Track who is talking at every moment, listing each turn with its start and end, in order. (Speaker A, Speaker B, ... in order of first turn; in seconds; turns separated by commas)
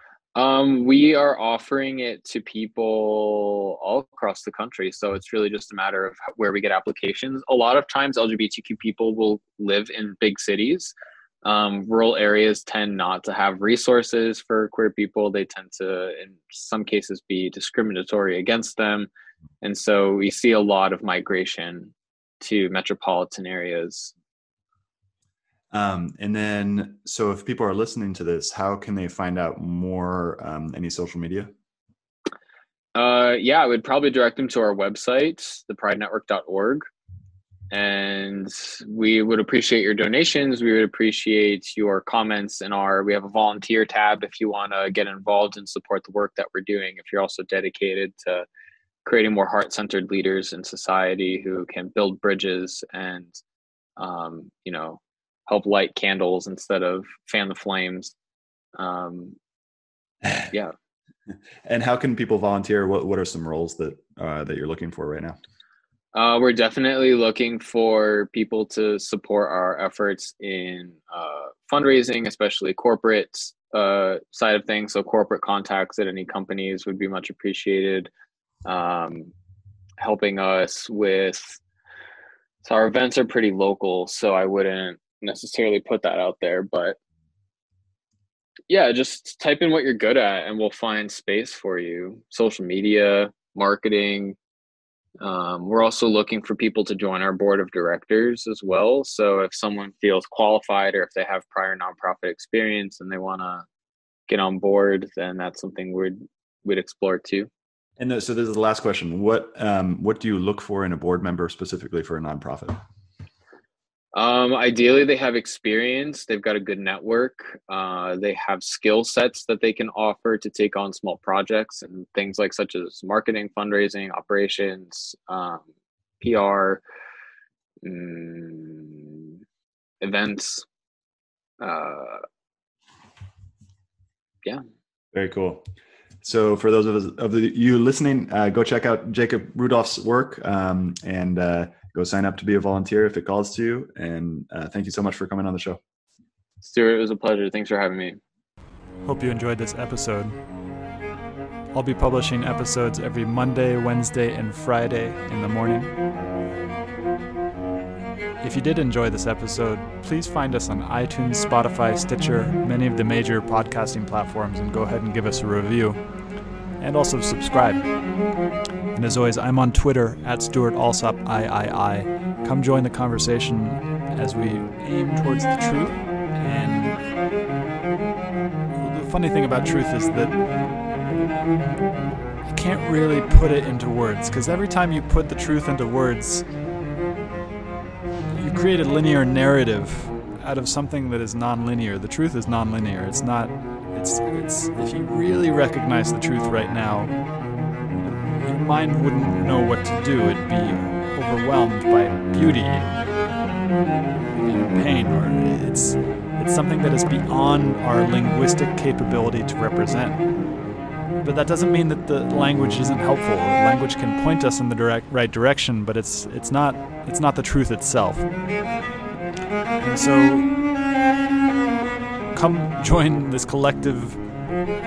Speaker A: 0.3-10.9, Speaker A: 11.4-19.1, Speaker A: 19.6-24.1, Speaker B: 25.7-31.5, Speaker A: 33.0-36.9, Speaker A: 37.7-48.5, Speaker A: 49.0-53.4, Speaker A: 54.0-58.1, Speaker A: 58.8-59.4, Speaker B: 60.2-60.5, Speaker B: 61.6-65.4, Speaker A: 66.1-78.1, Speaker A: 78.7-79.3, Speaker A: 80.0-81.6, Speaker A: 82.6-87.0, Speaker A: 88.7-94.4, Speaker A: 95.2-103.7, Speaker A: 104.3-107.5, Speaker B: 108.0-112.8, Speaker A: 114.1-125.7, Speaker A: 126.2-126.8, Speaker A: 127.8-129.3, Speaker A: 130.0-130.7, Speaker A: 131.6-132.2, Speaker B: 135.1-135.7, Speaker B: 136.2-145.8, Speaker A: 146.6-148.2, Speaker C: 149.1-150.4, Speaker C: 151.7-155.9, Speaker C: 158.4-166.0, Speaker C: 166.8-168.0, Speaker C: 168.9-177.0, Speaker C: 178.7-180.4, Speaker C: 182.4-186.5, Speaker C: 188.3-197.3, Speaker C: 198.4-203.0, Speaker C: 204.4-210.6, Speaker C: 211.2-218.5, Speaker C: 219.8-220.6, Speaker C: 222.3-224.4